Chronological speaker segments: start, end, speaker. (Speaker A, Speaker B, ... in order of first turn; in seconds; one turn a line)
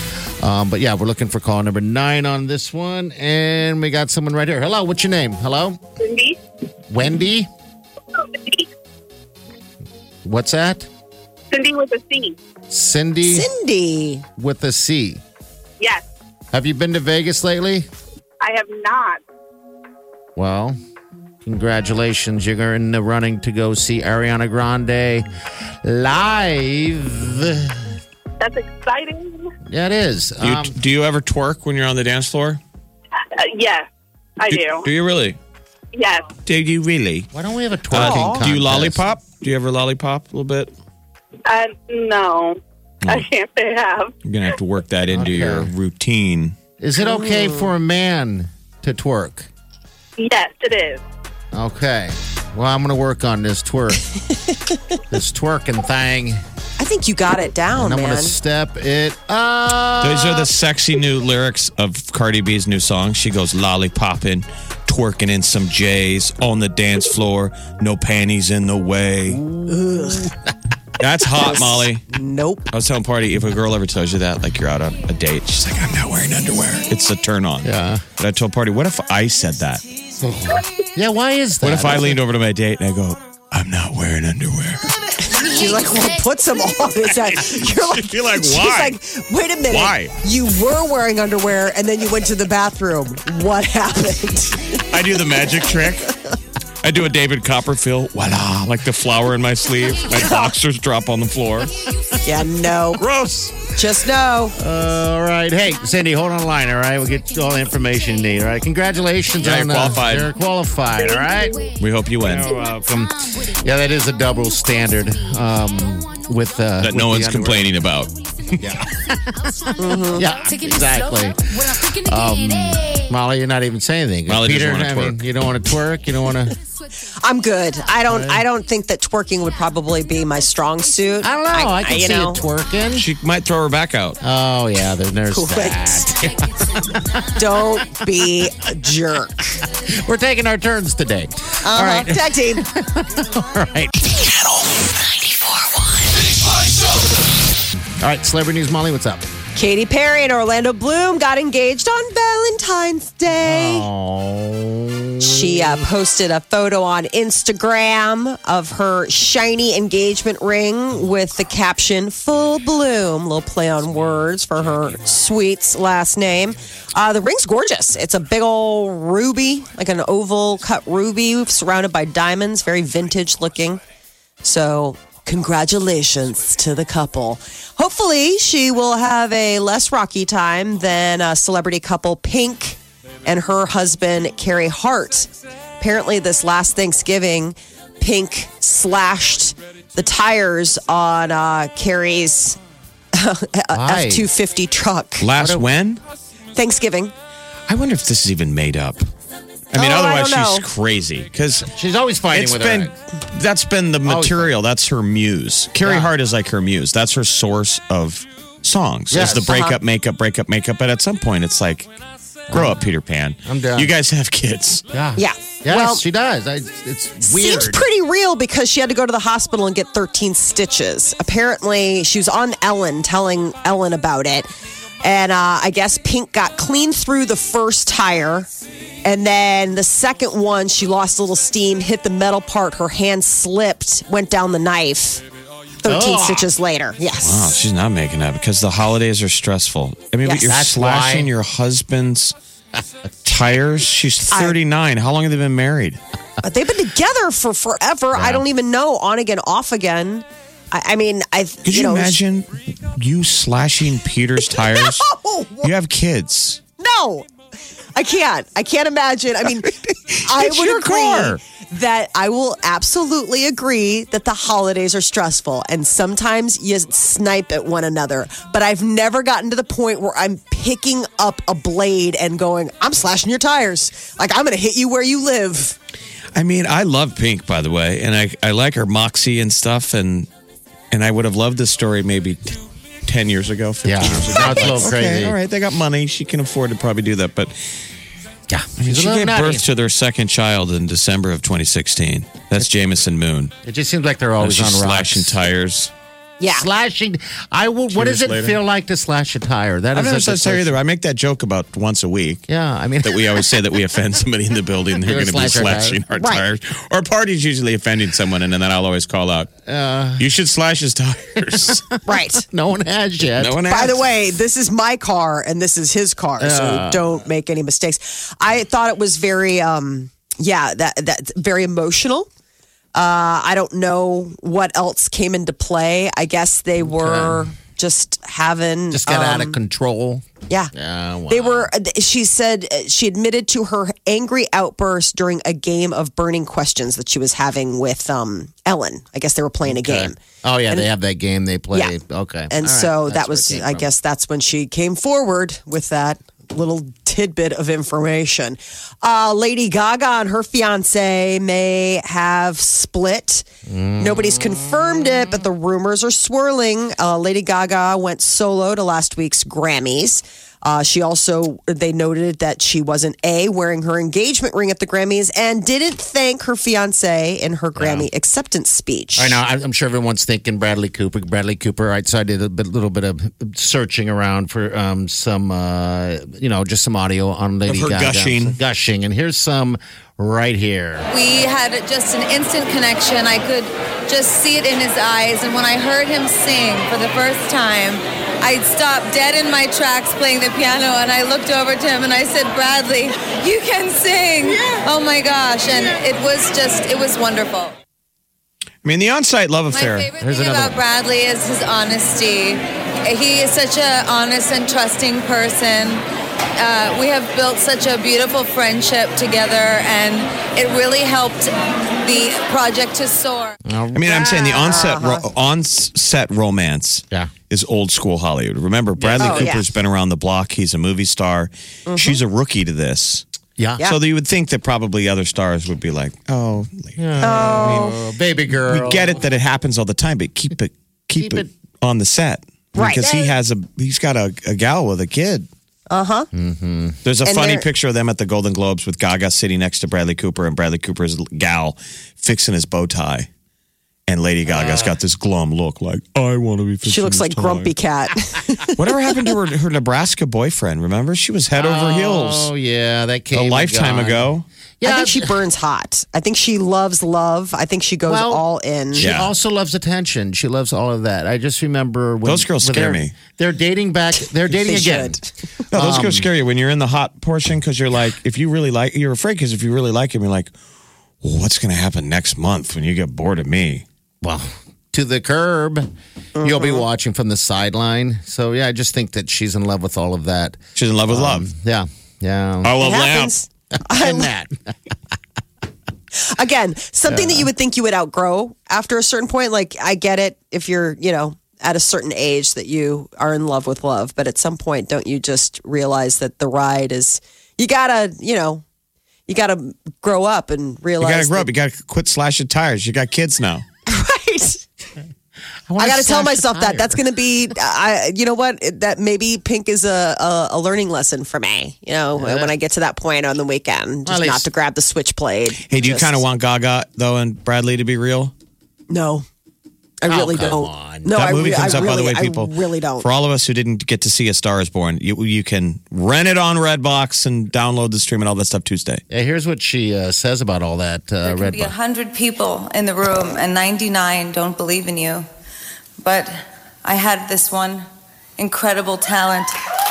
Speaker A: 0.4-5.8
Speaker B: 6.0-6.4
Speaker A: 6.9-7.5
Speaker B: 8.2-8.6
Speaker A: 10.2-10.9
Speaker B: 11.5-12.3
Speaker A: 12.7-13.5
Speaker C: 13.2-14.2
Speaker A: 14.4-15.2
Speaker A: 16.5-17.9
Speaker B: 18.4-19.2
Speaker A: 20.4-20.8
Speaker A: 21.4-25.3
Speaker A: 25.8-28.0
Speaker B: 28.4-29.5
Speaker A: 29.6-30.7
Speaker D: 30.4-32.6
Speaker B: 33.3-33.9
Speaker B: 34.4-34.8
Speaker D: 34.5-35.4
Speaker B: 35.9-36.3
Speaker D: 36.4-37.3
Speaker A: 37.3-39.0
Speaker D: 37.9-40.7
Speaker C: 37.9-38.4
Speaker B: 41.5-44.1
Speaker D: 43.0-43.3
Speaker D: 44.2-46.5
Speaker A: 45.1-45.7
Speaker A: 46.8-49.5
Speaker C: 47.0-47.7
Speaker B: 50.2-51.0
Speaker A: 51.5-54.2
Speaker A: 55.1-56.4
Speaker C: 56.8-58.4
Speaker A: 57.7-60.5
Speaker D: 60.0-69.4
Speaker A: 69.3-70.5
Speaker C: 69.7-70.3
Speaker D: 71.0-72.0
Speaker C: 71.4-72.7
Speaker D: 72.7-79.8
Speaker A: 77.6-78.0
Speaker A: 80.2-82.2
Speaker D: 81.6-84.9
Speaker C: 85.2-94.8
Speaker D: 87.2-89.0
Speaker D: 89.7-90.2
Speaker D: 94.9-96.1
Speaker D: 96.8-101.7
Speaker C: 100.2-100.5
Speaker C: 102.2-103.0
Speaker D: 103.0-103.5
Speaker C: 103.7-104.5
Speaker A: 104.5-111.6
Speaker D: 109.4-110.3
Speaker D: 111.8-112.6
Speaker A: 112.2-117.8
Speaker D: 116.8-118.7
Speaker A: 118.6-126.5
Speaker C: 119.8-120.3
Speaker D: 124.3-125.2
Speaker C: 127.2-132.4
Speaker A: 128.0-128.4
Speaker A: 131.2-133.1
Speaker D: 132.9-134.2
Speaker A: 134.2-137.2
Speaker C: 135.3-135.9
Speaker C: 137.3-139.6
Speaker A: 139.8-143.9
Speaker C: 141.6-142.7
Speaker E: 144.2-145.2
Speaker E: 146.1-147.2
Speaker A: 148.0-149.3
Speaker C: 149.5-153.9
Speaker A: 153.3-155.9
Speaker C: 155.2-173.8
Speaker C: 174.4-192.6
Speaker C: 193.1-195.2
Speaker A: 193.7-194.3
Speaker D: 195.2-196.0
Speaker A: 195.3-195.6
Speaker C: 196.5-197.1
Speaker D: 197.7-199.0
Speaker D: 199.7-201.7
Speaker C: 199.7-200.7
Speaker A: 201.7-202.9
Speaker D: 202.3-211.9
Speaker A: 204.0-204.5
Speaker A: 205.8-206.1
Speaker A: 209.1-209.5
Speaker C: 209.3-209.8
Speaker A: 212.5-212.8
Speaker D: 212.5-214.8
Speaker A: 213.4-213.9
Speaker A: 214.9-217.9
Speaker C: 215.2-216.0
Speaker C: 217.2-224.5
Speaker C: 225.0-228.5
Speaker C: 229.0-235.2
Speaker C: 235.8-237.6
Speaker A: 235.8-236.5
Speaker D: 237.2-242.3
Speaker C: 240.2-240.5
Speaker A: 240.4-241.3
Speaker D: 243.2-246.0
Speaker C: 244.3-244.6
Speaker C: 246.4-252.2
Speaker A: 248.1-248.4
Speaker D: 251.7-255.1
Speaker C: 254.5-255.7
Speaker D: 255.6-256.6
Speaker C: 256.8-257.3
Speaker C: 257.9-275.8
Speaker A: 260.3-261.4
Speaker D: 260.6-261.1
Speaker D: 276.3-280.3
Speaker D: 280.9-287.5
Speaker A: 283.8-285.4
Speaker A: 288.5-289.6
Speaker D: 288.8-293.5
Speaker A: 293.6-295.4
Speaker D: 294.4-295.9
Speaker C: 296.4-296.7
Speaker A: 296.5-300.8
Speaker D: 297.9-298.6
Speaker D: 299.9-302.4
Speaker A: 302.5-303.4
Speaker D: 303.0-309.5
Speaker A: 305.0-306.0
Speaker C: 306.2-306.4
Speaker A: 309.6-310.2
Speaker D: 310.2-311.8
Speaker A: 311.5-313.6
Speaker C: 312.1-312.4
Speaker D: 313.4-314.0
Speaker C: 313.6-322.3
Speaker A: 316.4-317.2
Speaker C: 322.9-329.6
Speaker A: 326.8-327.4
Speaker A: 328.9-331.7
Speaker C: 331.3-340.2
Speaker A: 339.6-343.9
Speaker C: 342.5-353.4
Speaker A: 353.6-355.1
Speaker C: 354.0-369.4
Speaker A: 367.8-368.1
Speaker A: 369.2-381.1
Speaker D: 377.7-378.6
Speaker F: 381.1-397.8
Speaker D: 398.8-400.1
Speaker F: 399.7-406.0
Speaker A: 400.2-400.8
Speaker F: 406.6-413.6
Speaker A: 413.6-414.7
Speaker D: 413.9-423.2
Speaker C: 414.6-415.2
Speaker A: 419.0-419.6
Speaker C: 419.2-419.6
Speaker C: 421.9-422.2
Speaker D: 423.8-427.9
Speaker A: 427.0-429.2
Speaker C: 427.2-428.0
Speaker D: 428.6-435.5
Speaker A: 431.2-431.5
Speaker C: 432.7-433.3
Speaker C: 435.9-436.3
Speaker A: 436.3-437.0
Speaker D: 437.0-443.3
Speaker C: 437.2-437.6
Speaker D: 444.1-447.7
Speaker A: 444.4-445.0
Speaker C: 446.8-449.1
Speaker D: 448.7-452.5
Speaker A: 451.5-455.4
Speaker D: 453.3-454.5
Speaker C: 454.8-459.1
Speaker A: 458.1-465.2
Speaker D: 459.0-459.3
Speaker D: 462.2-463.2
Speaker C: 464.2-465.3
Speaker A: 465.7-466.3
Speaker D: 465.7-470.5
Speaker D: 471.2-473.8
Speaker A: 474.2-482.8
Speaker C: 476.4-476.8
Speaker D: 480.8-481.5
Speaker D: 482.6-483.3
Speaker C: 482.8-484.3
Speaker A: 483.9-484.5
Speaker C: 486.1-498.6
Speaker A: 487.1-487.5
Speaker C: 499.3-501.5
Speaker D: 501.0-503.6
Speaker C: 503.9-504.6
Speaker A: 505.7-507.0
Speaker C: 505.8-516.2
Speaker A: 512.1-512.5
Speaker A: 514.0-514.5
Speaker D: 515.7-518.3
Speaker C: 518.9-519.2
Speaker C: 520.0-523.1
Speaker A: 520.0-522.0
Speaker D: 521.1-529.0
Speaker A: 529.1-531.7
Speaker F: 531.2-535.2
Speaker F: 536.0-537.9
Speaker F: 538.4-539.5